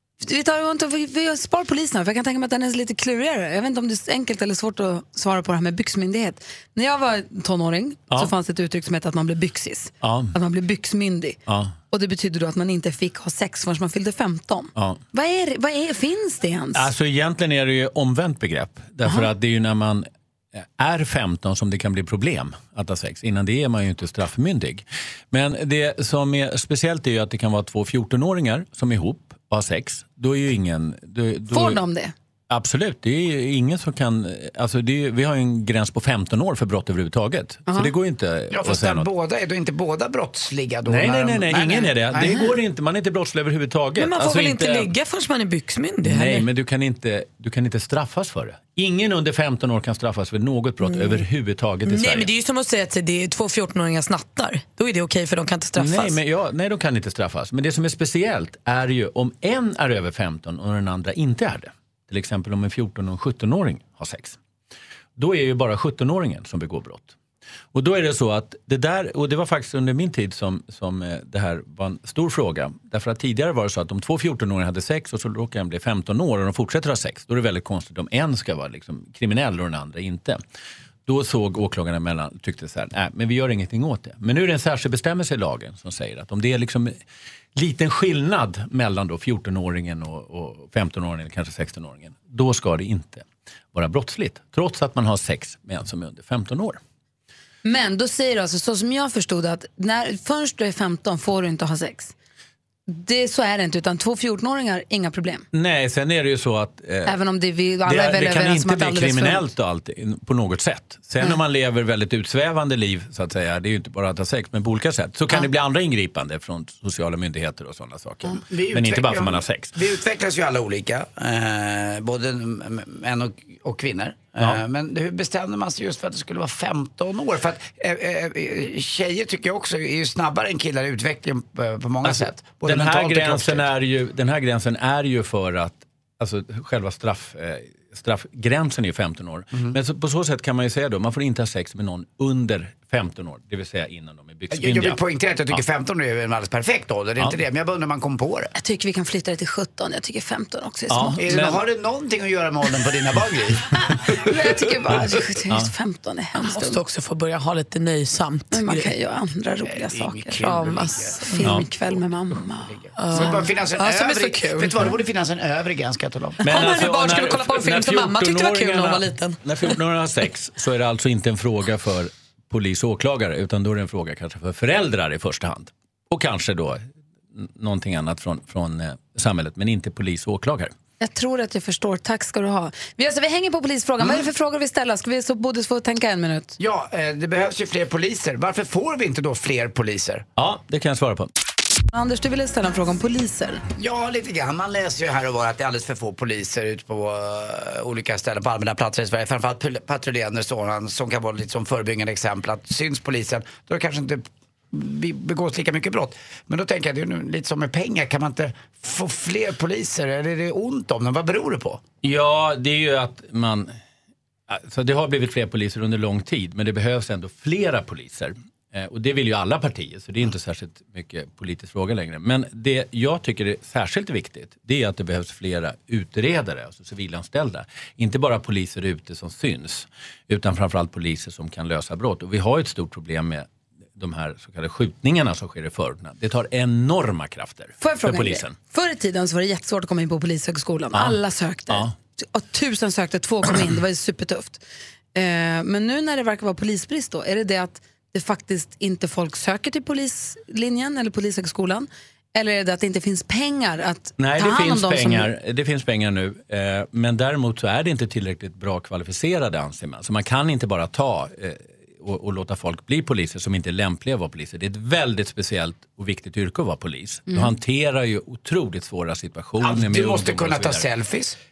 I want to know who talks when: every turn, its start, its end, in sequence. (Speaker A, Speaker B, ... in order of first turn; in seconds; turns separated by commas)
Speaker A: 0.2-11.4, Speaker B: 10.0-10.3, Speaker B: 11.5-11.8, Speaker A: 11.9-16.9, Speaker B: 16.7-31.8, Speaker A: 19.1-19.3, Speaker A: 31.5-32.1, Speaker B: 32.5-39.1, Speaker C: 38.5-42.5, Speaker B: 40.9-44.9, Speaker D: 44.0-46.5, Speaker B: 46.0-52.3, Speaker D: 50.8-51.2, Speaker D: 51.9-56.2, Speaker B: 55.8-64.4, Speaker B: 65.2-67.2, Speaker B: 67.7-80.4, Speaker B: 81.1-87.0, Speaker B: 87.5-96.8, Speaker A: 97.6-102.1, Speaker A: 102.9-105.5, Speaker B: 105.5-107.2, Speaker A: 107.1-109.5, Speaker B: 107.8-119.8, Speaker C: 118.3-133.7, Speaker B: 132.0-145.7, Speaker C: 144.5-148.5, Speaker A: 148.6-151.3, Speaker B: 150.9-151.6, Speaker C: 151.2-153.7, Speaker A: 154.1-156.8, Speaker B: 154.9-155.7, Speaker D: 156.4-158.9, Speaker A: 158.5-160.5, Speaker C: 159.6-161.3, Speaker D: 160.4-161.5, Speaker A: 161.3-163.3, Speaker C: 162.7-166.5, Speaker D: 163.0-164.9, Speaker D: 166.4-169.8, Speaker B: 166.4-180.7, Speaker A: 181.0-186.6, Speaker C: 186.6-190.2, Speaker B: 190.4-191.3, Speaker A: 191.9-193.6, Speaker C: 193.8-211.8, Speaker B: 212.0-213.7, Speaker B: 214.5-238.6, Speaker A: 237.8-244.6, Speaker B: 240.9-241.9, Speaker A: 245.2-255.3, Speaker B: 254.2-270.9, Speaker C: 269.6-271.4